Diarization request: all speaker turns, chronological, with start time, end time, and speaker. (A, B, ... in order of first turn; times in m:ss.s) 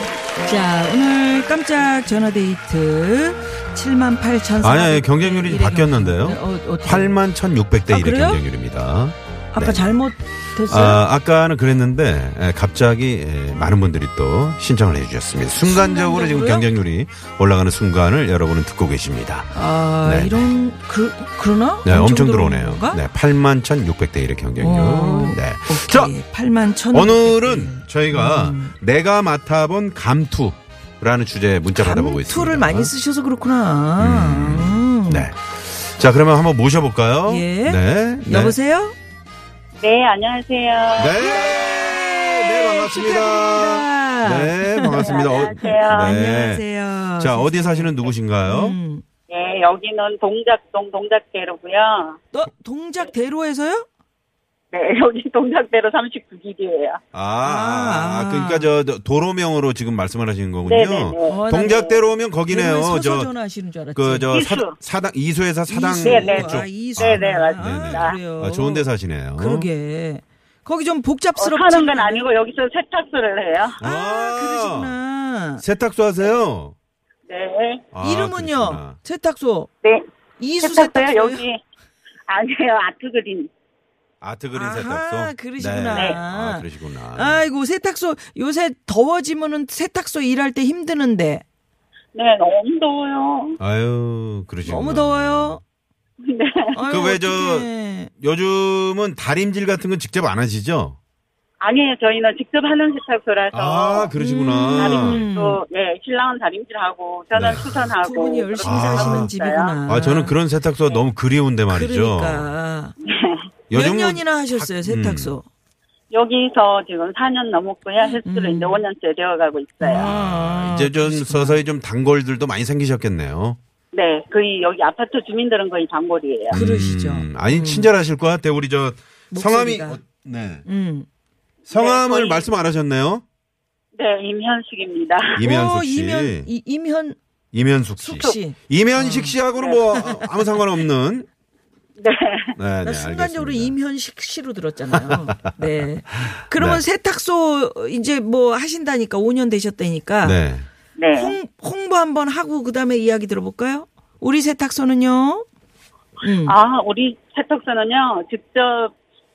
0:00.4-0:07.2 A
0:04.6-0:10.0 B
0:07.9-0:08.4 A
0:09.5-0:11.0 A
0:10.7-0:20.5 B
0:15.6-0:16.7 A
0:19.5-0:23.0 A
0:21.8-0:26.1 B
0:24.6-0:28.7 A
0:26.9-0:32.9 B
0:31.7-0:35.3 A
0:34.0-0:38.6 B
0:37.2-0:38.9 A
0:39.8-0:41.3 C
0:40.9-0:46.6 B
0:41.3-0:49.0 A
0:45.0-0:46.2 C
0:47.2-0:48.8 B
0:49.3-0:52.2 C
0:52.3-0:53.8 A
0:54.7-0:57.0 C
0:57.1-1:03.3 B
0:57.4-0:58.7 A
1:00.6-1:02.0 C
1:01.3-1:01.9 A
1:02.5-1:04.3 A
1:04.0-1:09.7 B
1:04.3-1:04.7 C
1:05.7-1:12.2 A
1:06.0-1:08.2 C
1:11.4-1:13.8 C
1:13.8-1:14.9 B
1:13.8-1:15.6 A
1:15.6-1:16.7 B
1:17.3-1:17.8 C
1:17.9-1:19.0 B
1:18.0-1:19.7 A
1:20.4-1:21.4 A
1:20.6-1:21.6 C
1:22.3-1:23.5 C
1:24.2-1:27.4 B
1:24.5-1:31.4 A
1:25.9-1:26.2 C
1:32.1-1:33.6 C
1:33.6-1:35.6 B
1:34.6-1:35.6 A
1:36.2-1:36.6 C
1:36.7-1:38.1 A
1:36.8-1:41.0 B
1:41.6-1:44.1 C
1:43.5-1:45.2 B
1:44.2-1:45.6 A
1:44.8-1:49.8 C
1:47.3-1:47.9 B
1:48.0-1:50.4 A
1:48.6-1:49.3 B
1:49.9-1:52.5 B
1:51.7-1:52.9 A
1:53.1-1:53.4 C
1:53.7-1:55.4 B
1:53.7-1:55.4 A
1:56.1-2:00.1 C
1:58.2-1:58.8 A
1:59.8-2:01.6 A
2:00.0-2:03.6 B
2:03.9-2:06.6 C
2:06.5-2:10.6 B
2:06.5-2:07.9 A
2:09.3-2:10.0 A
2:10.6-2:11.1 A
2:11.6-2:13.2 B
2:11.7-2:12.4 C
2:14.0-2:15.4 C
2:15.3-2:16.5 B
2:15.4-2:17.2 A
2:17.5-2:21.2 B
2:18.0-2:19.4 A
2:19.6-2:19.9 C
2:19.9-2:20.5 A
2:22.0-2:22.5 C
2:22.6-2:23.7 B
2:22.8-2:30.4 A
2:24.9-2:25.3 B
2:26.4-2:26.8 B
2:30.2-2:30.7 B
2:31.0-2:31.4 C
2:31.1-2:35.4 A
2:36.2-2:36.6 A
2:36.4-2:38.9 C